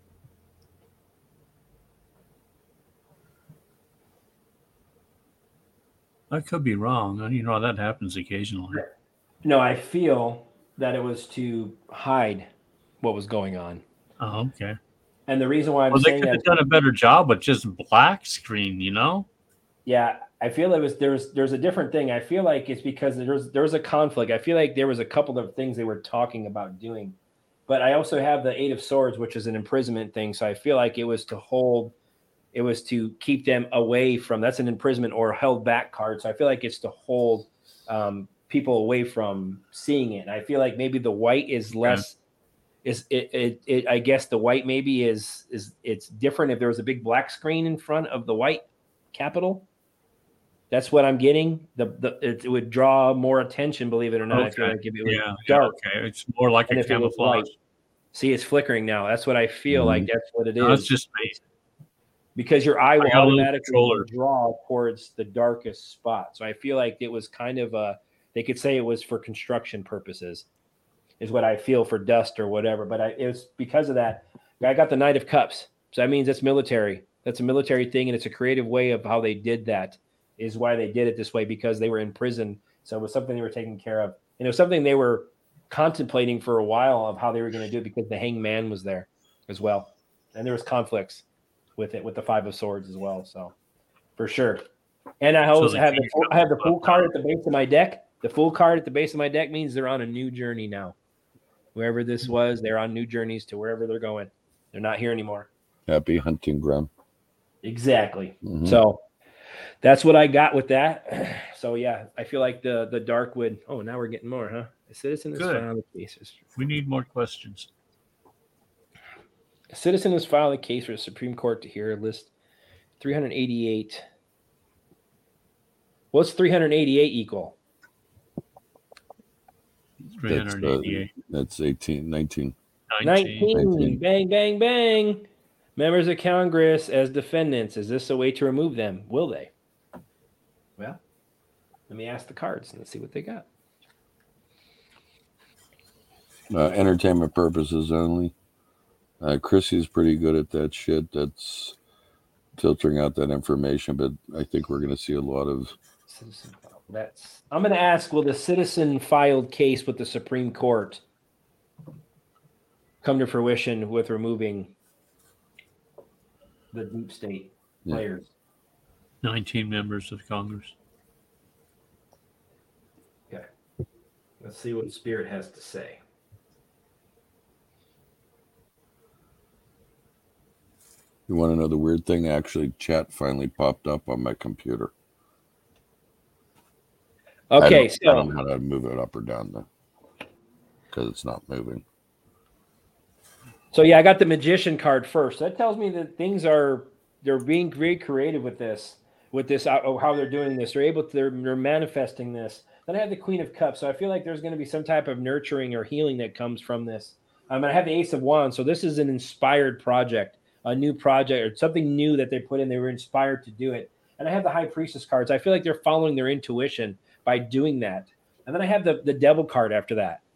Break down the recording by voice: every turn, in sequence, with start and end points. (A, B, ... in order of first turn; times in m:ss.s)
0:06.3-0:08.8 A
0:09.4-0:12.5 B
0:13.0-0:13.8 B
0:14.2-0:14.8 A
0:15.3-0:16.5 B
0:15.9-0:19.3 A
0:19.8-0:27.2 B
0:27.7-0:31.9 B
0:32.5-0:42.2 B
0:42.8-0:49.7 B
0:50.7-0:55.7 B
0:54.3-0:57.5 A
0:56.7-0:57.5 B
0:58.1-1:00.9 B
0:59.7-1:00.1 C
1:00.6-1:01.4 A
1:02.4-1:10.4 B
1:03.0-1:04.1 A
1:11.2-1:31.2 B
1:31.8-1:33.5 B
1:34.2-1:34.6 B
1:35.2-1:41.0 B
1:35.5-1:37.1 A
1:41.7-1:45.5 B
1:45.9-1:46.9 C
1:47.6-1:49.0 B
1:48.4-1:48.8 C
1:49.8-1:56.4 B
1:55.4-1:55.6 A
1:56.5-1:57.7 A
1:59.7-2:02.3 B
2:03.0-2:04.0 B
2:06.1-2:07.6 B
2:10.1-2:11.1 A
2:10.3-2:12.6 C
2:12.9-2:13.5 A
2:13.0-2:19.5 B
2:13.5-2:14.0 C
2:21.9-2:23.4 B
2:26.5-2:28.3 C
2:29.2-2:31.8 C
2:32.6-2:35.8 C
2:36.1-2:41.0 B
2:43.0-2:44.7 B
2:46.7-2:48.3 B
2:49.2-2:50.7 A
2:54.4-2:56.0 B
3:01.3-3:04.9 C
3:07.5-3:08.3 B
3:07.6-3:09.7 C
3:10.9-3:11.8 C
3:13.7-3:40.2 B